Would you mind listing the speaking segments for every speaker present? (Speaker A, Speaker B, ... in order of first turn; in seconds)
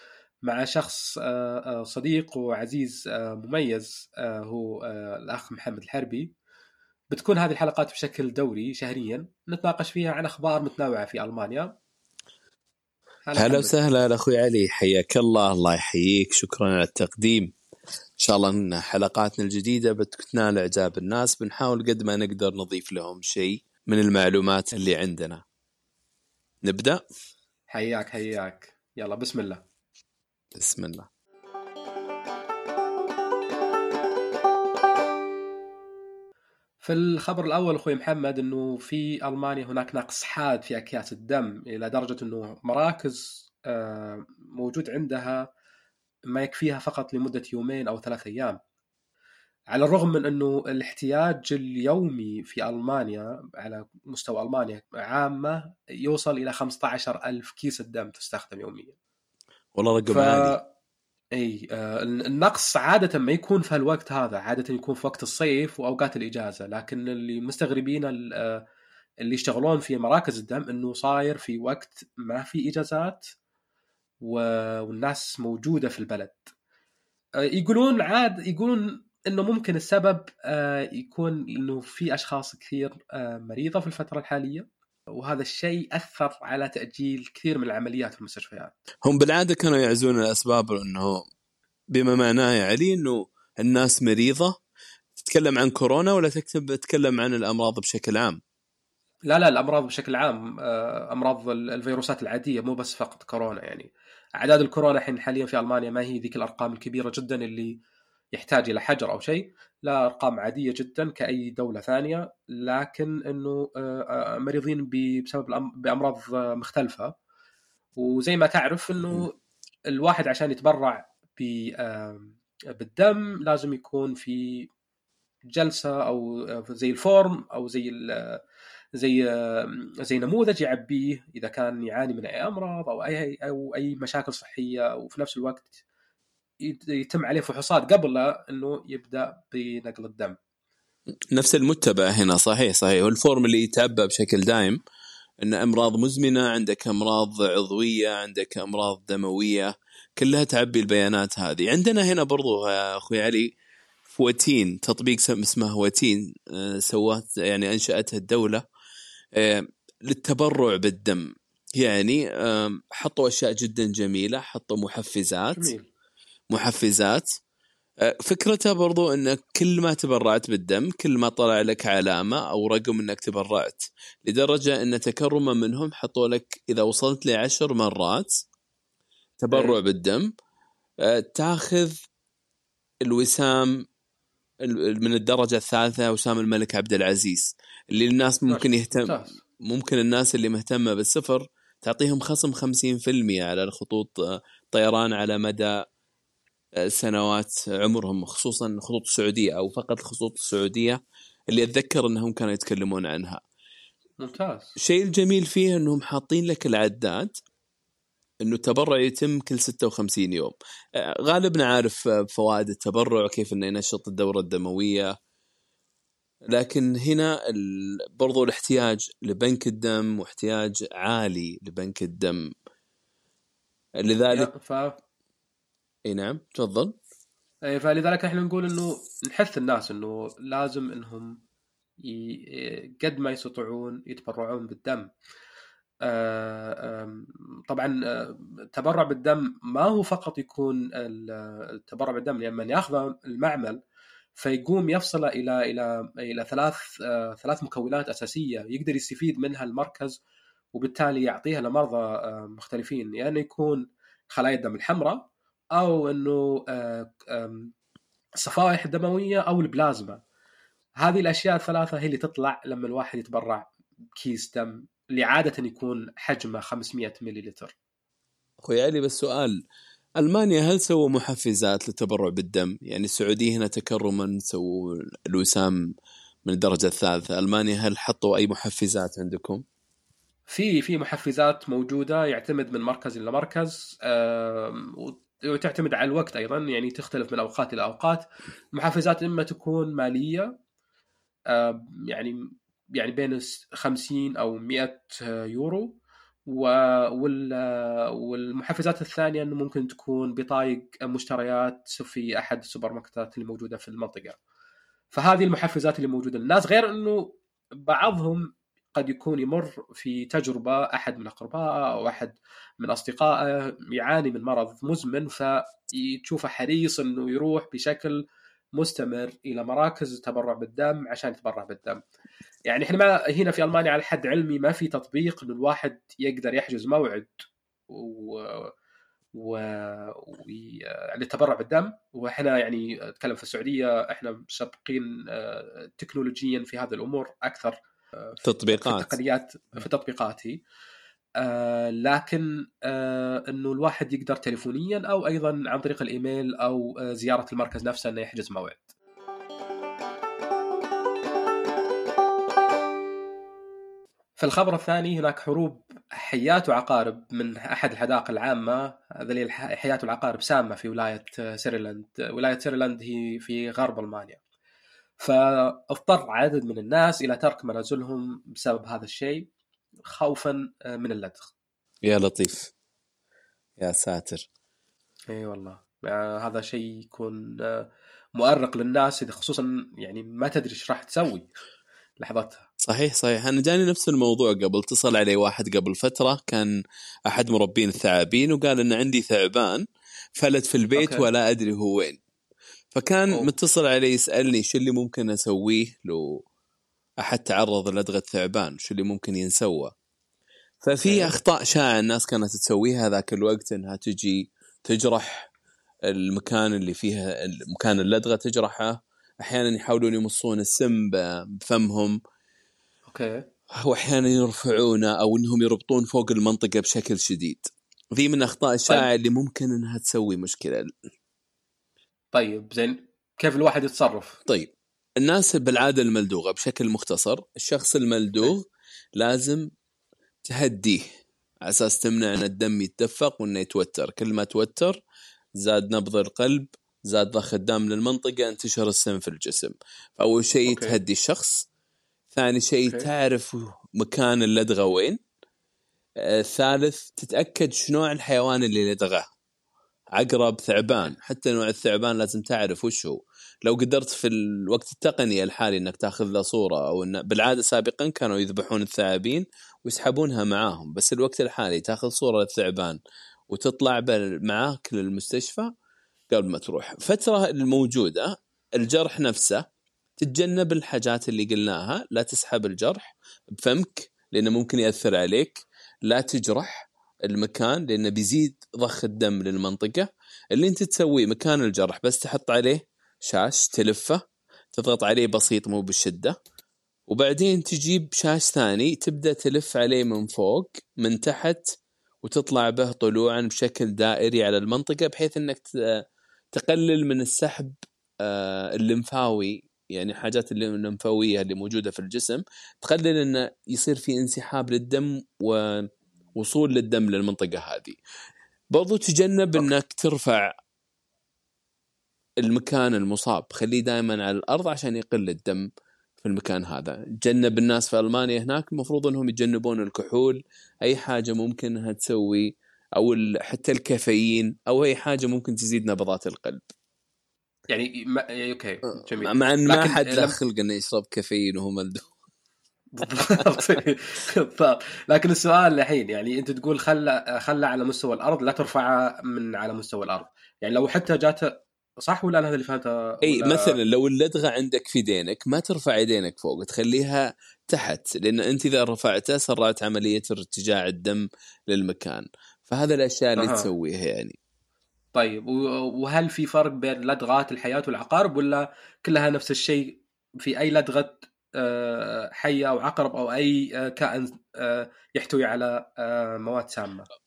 Speaker A: 0.5-6.3, 7.1-11.8, 13.3-13.7, 27.7-29.6, 36.8-45.5, 46.3-48.6, 49.7-59.0, 60.1-60.7, 61.4-68.6, 69.2-73.3, 74.2-76.5, 77.5-88.8, 99.3-107.7, 108.3-117.1, 118.0-119.3, 119.9-124.7, 125.5-128.4, 129.0-135.8, 136.6-140.4, 165.6-165.9, 179.5-179.8, 188.5-189.3, 204.2-204.8, 224.3-225.0, 227.7-231.4, 232.0-235.1, 236.0-243.8, 244.4-250.2, 250.7-257.7, 258.4-260.2, 261.0-263.7, 264.2-267.8, 280.5-290.5, 291.5-292.4, 293.0-304.4, 305.1-318.2, 318.8-322.0, 322.7-327.3, 327.9-328.7, 329.4-340.6, 341.4-348.9, 354.4-364.4, 365.2-369.5, 370.1-371.5, 375.3-377.9, 378.4-381.5, 382.2-382.6, 390.9-391.3, 401.0-401.4, 413.1-413.4, 422.3-424.4, 440.7-441.0, 527.7-530.4, 532.9-543.8, 553.4-553.7, 555.1-567.1
Speaker B: 13.4-17.6, 18.2-25.4, 26.6-27.0, 30.5-31.1, 59.8-60.6, 89.0-91.3, 91.9-94.6, 95.2-98.4, 141.3-144.8, 145.4-153.5, 154.1-158.6, 159.3-165.7, 166.5-167.3, 168.0-178.4, 179.4-180.3, 181.0-182.0, 183.0-183.8, 184.6-195.8, 196.8-203.4, 204.8-207.3, 208.4-215.2, 216.5-222.5, 224.0-224.5, 226.1-226.9, 268.6-269.6, 270.2-275.9, 276.4-279.6, 338.4-339.2, 372.0-372.7, 373.8-374.5, 382.9-386.7, 387.3-389.9, 390.4-392.2, 392.9-396.4, 397.2-399.9, 400.8-405.5, 406.1-412.2, 413.8-420.9, 424.5-429.7, 430.4-431.0, 431.6-435.0, 435.6-441.7, 442.3-445.2, 446.2-449.3, 450.1-465.7, 466.3-469.6, 470.2-484.2, 484.7-486.4, 487.1-491.7, 492.2-508.0, 508.7-510.5, 512.4-515.7, 516.2-526.6, 528.9-532.1, 533.1-533.6, 543.2-554.4